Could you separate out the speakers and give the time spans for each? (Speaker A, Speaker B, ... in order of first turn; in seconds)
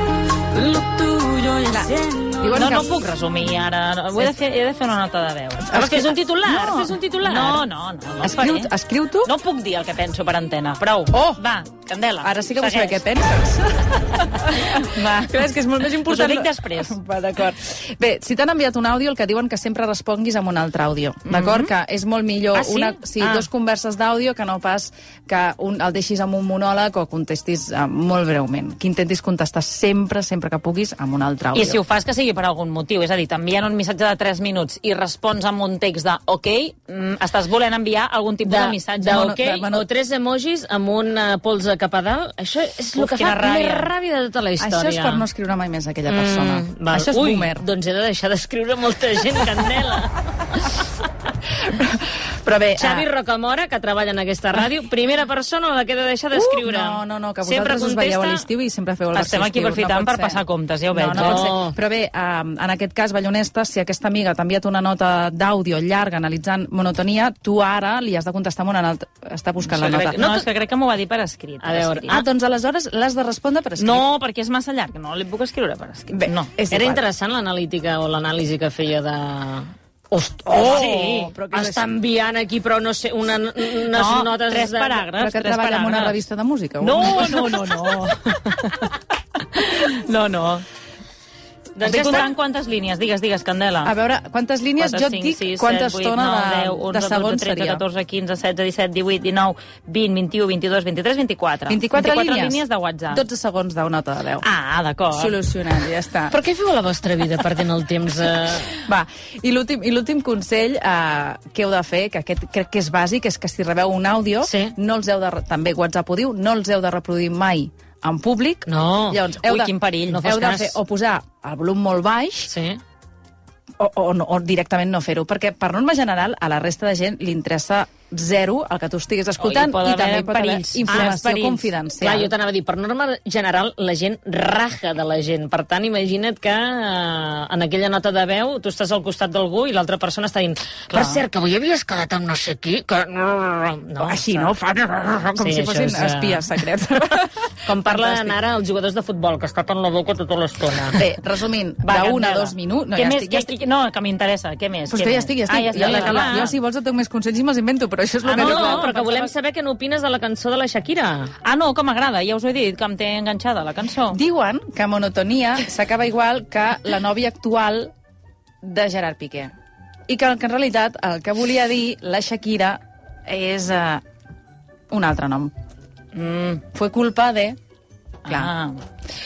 Speaker A: 0.6-5.8, 6.5-8.7, 9.2-13.1, 14.0-15.1, 16.1-17.0, 21.3-21.7, 23.1-23.5, 31.5-39.3, 42.9-43.9, 59.1-61.5, 69.8-72.2, 73.8-76.5, 80.6-81.3, 83.9-86.2, 86.8-90.7, 91.8-93.9, 94.8-103.2, 104.4-105.4, 119.4-120.2, 129.4-131.7, 140.9-141.2, 151.8-156.6, 158.2-159.3, 161.4-164.2, 176.2-176.6, 178.2-178.8
Speaker B: 1.7-3.0, 5.7-6.2, 8.2-9.3, 11.1-11.4, 12.2-31.8, 39.0-39.8, 44.6-47.6, 51.7-53.1, 56.3-70.2, 72.1-74.1, 76.1-77.0, 80.6-82.0, 85.2-88.0, 91.9-92.3, 93.8-97.8, 101.7-104.5, 105.1-106.3, 108.8-122.5, 123.8-132.3, 144.0-148.4, 150.9-153.6, 154.9-158.9, 164.1-167.9, 168.6-169.5, 170.1-174.0, 174.9-175.5, 176.7-177.6, 178.3-178.5
Speaker C: 5.7-7.6, 22.6-22.9, 38.5-45.3, 46.1-50.8, 52.8-58.5, 61.1-61.8, 70.0-70.5, 71.6-72.2, 76.7-85.0, 91.8-92.3, 106.3-108.7, 114.4-114.7, 118.7-119.2, 120.1-120.8, 122.5-122.8, 130.9-131.1, 132.0-144.6, 145.4-146.6, 147.7-151.0, 155.8-156.5, 158.3-161.3